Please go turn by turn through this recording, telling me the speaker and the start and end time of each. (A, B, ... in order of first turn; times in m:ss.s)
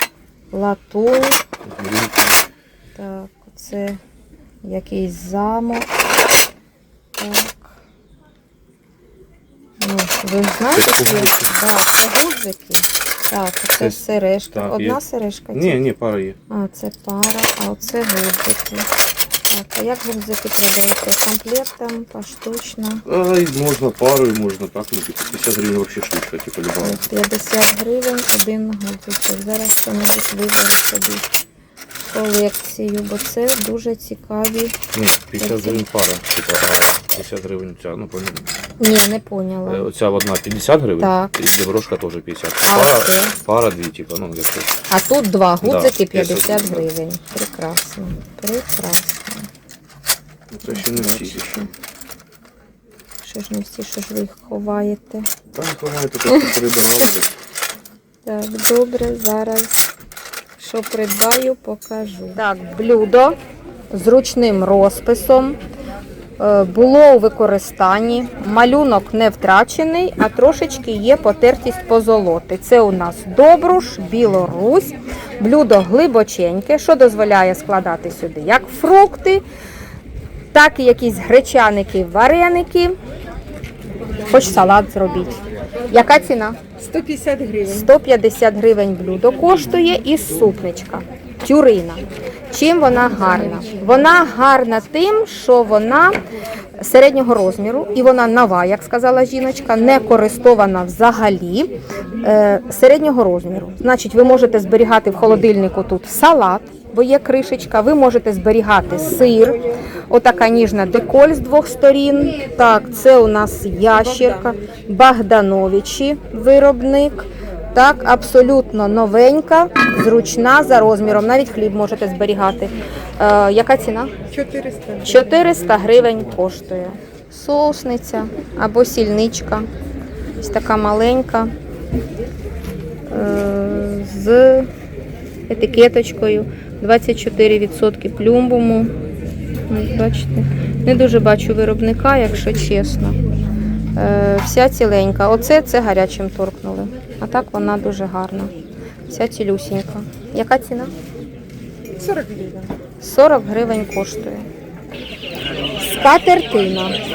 0:00.5-0:01.4 A
0:01.6-0:02.4 B
0:03.0-0:04.0 A
0:04.6-0:05.9 A
0:07.2-0:07.7 A
0:09.8-0:15.8 A
0:10.7-0:11.5 B
0:14.5-0:15.0 B
0:15.5-0:16.4 B
0:16.5-0:18.9 A
0:19.5-0:23.0 A
0:23.1-0:27.0 B
0:26.8-0:31.3 A
0:32.1-0:34.8 A
0:34.9-0:38.4 B
0:35.4-0:35.8 A
0:38.8-0:39.9 A
0:39.7-0:44.8 B
0:41.0-0:41.3 A
0:42.6-0:43.3 A
0:44.9-0:49.5 A
0:45.6-0:46.9 B
0:50.5-0:51.7 B
0:50.7-0:51.7 A
0:53.2-0:55.3 A
0:55.5-0:57.4 B
0:58.2-0:59.8 A
1:00.6-1:03.4 A
1:03.9-1:05.6 A
1:06.4-1:19.4 A
1:20.5-1:23.0 A
1:24.3-1:25.4 A
1:25.9-1:26.6 A
1:26.8-1:27.9 C
1:27.7-1:36.2 A
1:36.8-2:04.2 A
2:04.3-2:05.2 C
2:05.0-2:09.7 A
2:10.4-2:11.5 A
2:13.1-2:14.7 A
2:15.5-2:18.9 A
2:19.7-2:23.2 A
2:24.0-2:28.6 A
2:29.1-2:30.9 A
2:32.0-2:32.7 C
2:33.0-2:34.5 A
2:35.8-2:37.0 A